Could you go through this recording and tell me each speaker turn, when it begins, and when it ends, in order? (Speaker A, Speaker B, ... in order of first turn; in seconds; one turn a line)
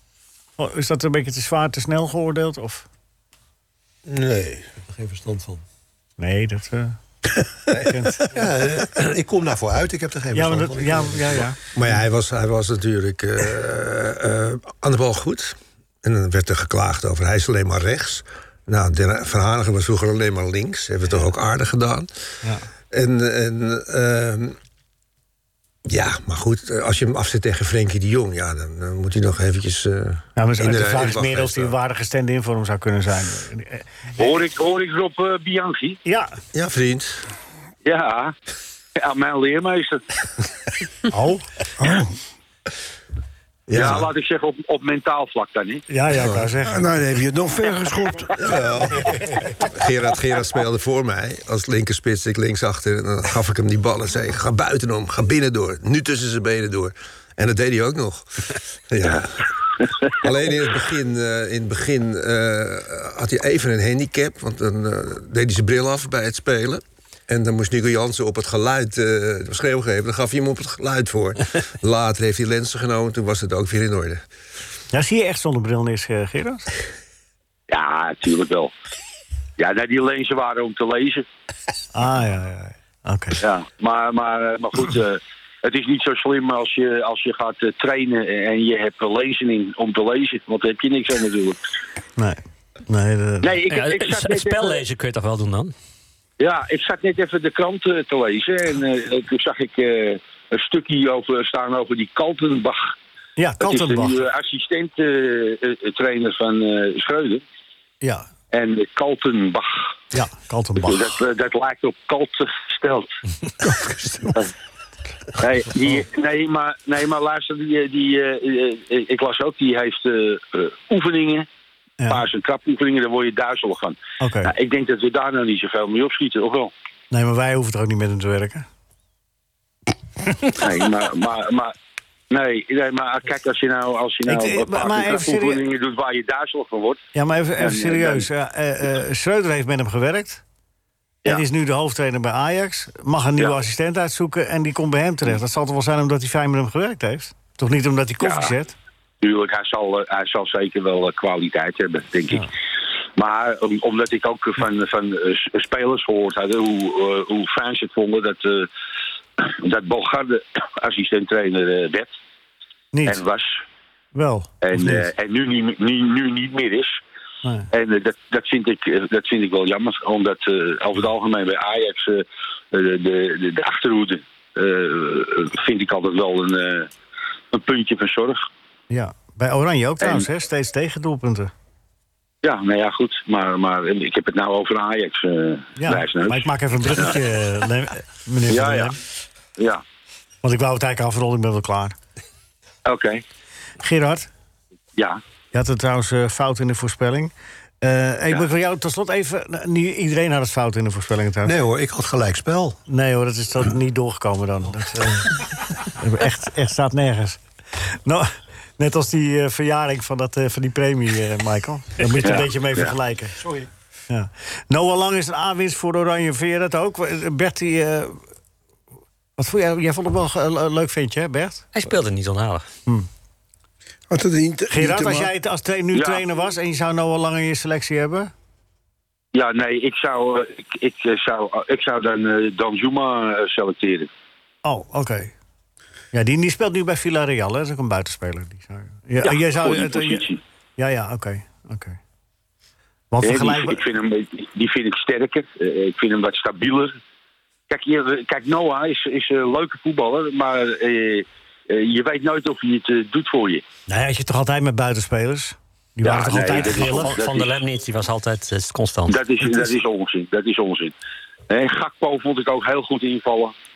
Speaker A: 0.6-2.9
Speaker B: 4.1-4.7
Speaker C: 4.9-5.6
Speaker A: 6.2-7.0
Speaker A: 7.7-8.2
Speaker C: 8.3-11.4
Speaker A: 10.3-11.6
Speaker B: 11.7-22.1
Speaker B: 22.9-24.6
Speaker B: 25.9-31.8
Speaker A: 30.4-33.9
Speaker D: 34.2-36.0
Speaker A: 36.0-36.3
Speaker B: 36.5-37.2
Speaker D: 37.8-38.3
Speaker D: 39.0-40.0
Speaker A: 41.1-41.5
Speaker E: 41.8-42.1
Speaker B: 43.7-44.1
Speaker D: 43.7-45.8
Speaker A: 43.7-44.0
Speaker A: 45.9-46.8
Speaker E: 46.7-48.5
Speaker B: 48.4-59.5
Speaker B: 60.2-74.2
Speaker A: 74.9-76.7
Speaker D: 77.7-78.7
Speaker D: 79.6-81.2
Speaker A: 81.9-83.4
Speaker D: 83.4-91.6
Speaker A: 92.2-93.5
Speaker D: 93.4-94.8
Speaker F: 93.7-95.7
Speaker D: 96.4-102.9
Speaker A: 103.4-104.2
Speaker D: 103.6-107.4
Speaker A: 108.0-108.3
Speaker D: 108.5-109.9
Speaker A: 110.1-111.1
Speaker D: 110.8-113.2
Speaker E: 113.6-114.4
Speaker D: 115.4-121.5
Speaker A: 122.0-122.2
Speaker D: 122.0-126.7
Speaker A: 124.2-124.5
Speaker A: 127.1-128.6
Speaker D: 130.5-131.7
Speaker D: 132.3-137.0
Speaker A: 134.2-135.6
Speaker A: 137.1-140.4
Speaker D: 137.6-138.3
Speaker A: 141.2-148.8
Speaker D: 148.2-148.5
Speaker D: 149.2-152.5
Speaker D: 153.2-158.7
Speaker D: 159.4-162.1
Speaker A: 162.9-163.2
Speaker D: 163.1-163.6
Speaker A: 164.1-165.1
Speaker D: 164.6-167.0
Speaker D: 167.7-176.9
Speaker D: 177.5-178.4
Speaker A: 178.9-181.5
Speaker D: 180.0-180.2
Speaker D: 182.4-187.2
Speaker A: 185.8-189.0
Speaker D: 188.5-189.0
Speaker D: 189.6-189.8
Speaker A: 190.4-191.9
Speaker D: 192.8-193.2
Speaker A: 193.8-194.3
Speaker D: 194.9-195.2
Speaker A: 195.5-201.5
Speaker C: 201.4-202.8
Speaker A: 202.9-213.5
Speaker D: 212.2-212.9
Speaker A: 214.1-218.2
Speaker A: 219.4-221.7
Speaker F: 221.7-222.7
Speaker E: 224.1-225.3
Speaker A: 224.7-228.3
Speaker D: 225.9-226.2
Speaker D: 229.3-234.1
Speaker A: 234.6-235.3
Speaker A: 236.1-240.3
Speaker D: 239.2-240.4
Speaker A: 240.8-242.0
Speaker A: 243.1-243.8
Speaker D: 243.2-247.0
Speaker D: 247.7-253.6
Speaker A: 253.9-257.2
Speaker D: 256.0-257.6
Speaker F: 256.2-259.5
Speaker D: 259.1-260.9
Speaker D: 261.5-263.5